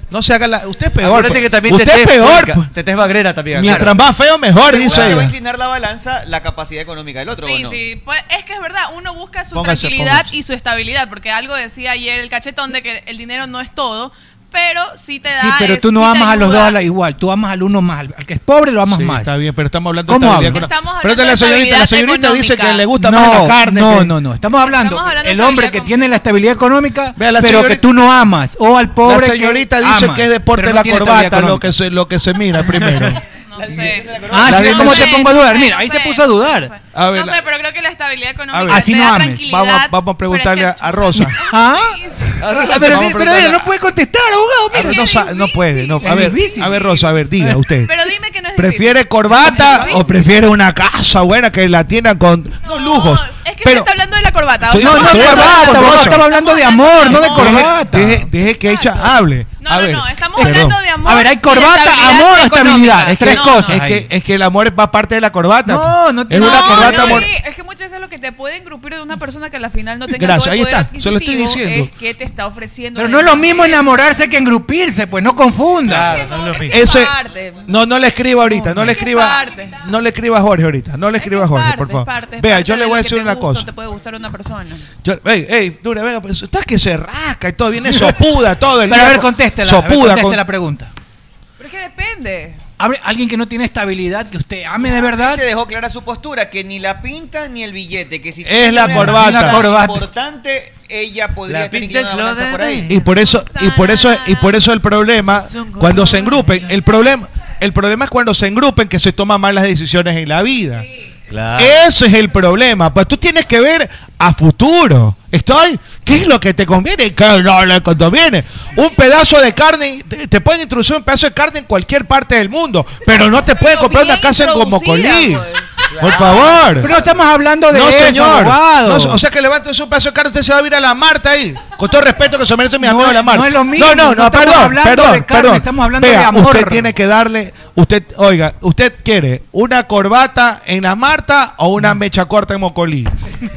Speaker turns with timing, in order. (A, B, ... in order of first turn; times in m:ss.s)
0:00.1-0:02.7 A
0:01.0-0:04.0 B
0:03.5-0:05.3 A
0:04.6-0:07.8 C
0:04.9-0:05.2 B
0:07.4-0:16.8 D
0:09.5-0:10.3 A
0:15.3-0:19.3 E
0:18.9-0:24.1 A
0:20.1-0:20.7 E
0:20.5-0:22.8 D
0:23.0-0:31.7 E
0:24.5-0:26.2 D
0:27.2-0:27.8 A
0:29.0-0:33.2 A
0:32.8-0:33.1 B
0:33.5-0:42.3 D
0:33.6-0:34.8 C
0:34.3-0:36.7 E
0:34.4-0:35.2 A
0:36.9-0:37.4 A
0:38.5-0:38.9 A
0:38.7-0:39.4 E
0:39.4-0:41.4 A
0:41.3-0:45.1 E
0:42.4-0:43.5 B
0:42.7-0:43.7 A
0:44.7-0:47.9 A
0:44.8-0:47.0 D
0:46.0-0:46.8 E
0:47.8-0:50.2 D
0:48.5-0:53.9 A
0:52.6-0:57.8 D
0:54.6-0:56.3 A
0:54.8-0:58.3 E
0:57.1-1:00.8 A
0:58.6-0:58.9 D
0:59.6-1:03.8 D
1:00.4-1:04.0 E
1:03.0-1:07.3 A
1:05.6-1:07.3 E
1:06.4-1:14.0 F
1:06.4-1:07.2 D
1:10.1-1:11.9 A
1:13.0-1:16.2 E
1:15.8-1:16.9 B
1:16.1-1:17.7 F
1:16.7-1:23.7 A
1:18.5-1:18.9 E
1:18.7-1:19.8 F
1:19.0-1:19.3 D
1:21.2-1:24.8 F
1:25.0-1:30.4 A
1:27.8-1:28.1 E
1:28.9-1:30.9 E
1:31.6-1:32.6 F
1:32.8-1:35.4 E
1:34.9-1:42.9 C
1:38.4-1:39.6 A
1:38.9-1:40.0 E
1:41.5-1:43.0 B
1:42.9-1:50.8 A
1:43.5-1:44.6 D
1:45.2-1:46.8 B
1:51.3-1:51.8 B
1:51.6-2:06.9 A
2:03.6-2:05.7 F
2:05.9-2:07.2 B
2:06.8-2:09.2 E
2:07.7-2:23.1 A
2:12.8-2:16.9 E